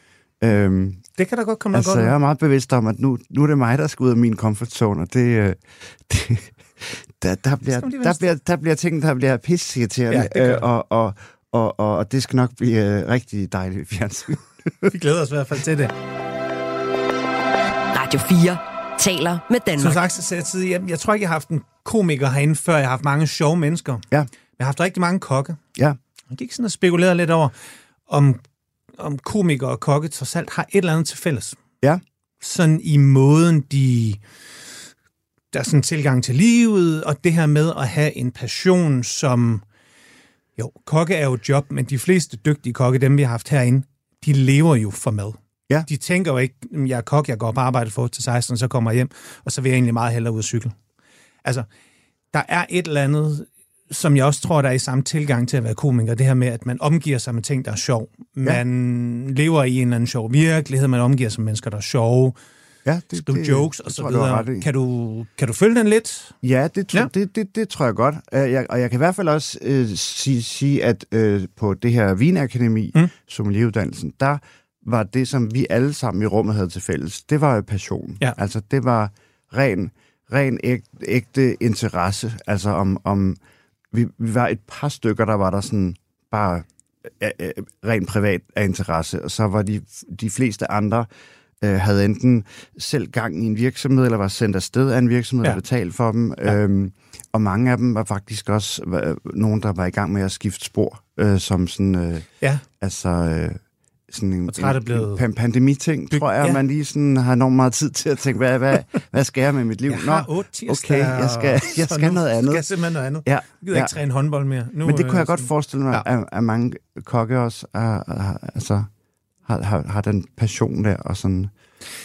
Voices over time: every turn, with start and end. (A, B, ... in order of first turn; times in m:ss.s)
0:00.4-0:01.0 A
0:01.2-0:02.1 B
0:01.7-0:14.9 A
0:07.7-0:08.3 B
0:10.1-0:10.6 B
0:14.9-0:15.9 B
0:17.9-0:20.0 C
0:19.8-0:24.0 B
0:24.6-0:25.6 B
0:26.3-0:27.5 B
0:28.1-0:28.4 B
0:29.0-0:31.6 B
0:32.4-0:34.2 B
0:35.5-0:39.6 B
0:40.6-0:50.8 B
0:52.3-1:02.4 B
1:02.8-1:04.7 A
1:03.2-1:06.4 B
1:06.4-1:23.4 A
1:23.9-1:31.1 A
1:31.6-1:42.3 A
1:42.8-1:52.7 A
1:44.5-1:45.2 B
1:46.1-1:46.6 B
1:49.9-1:56.0 B
1:53.2-1:54.0 A
1:54.8-1:58.9 A
1:59.5-2:01.5 A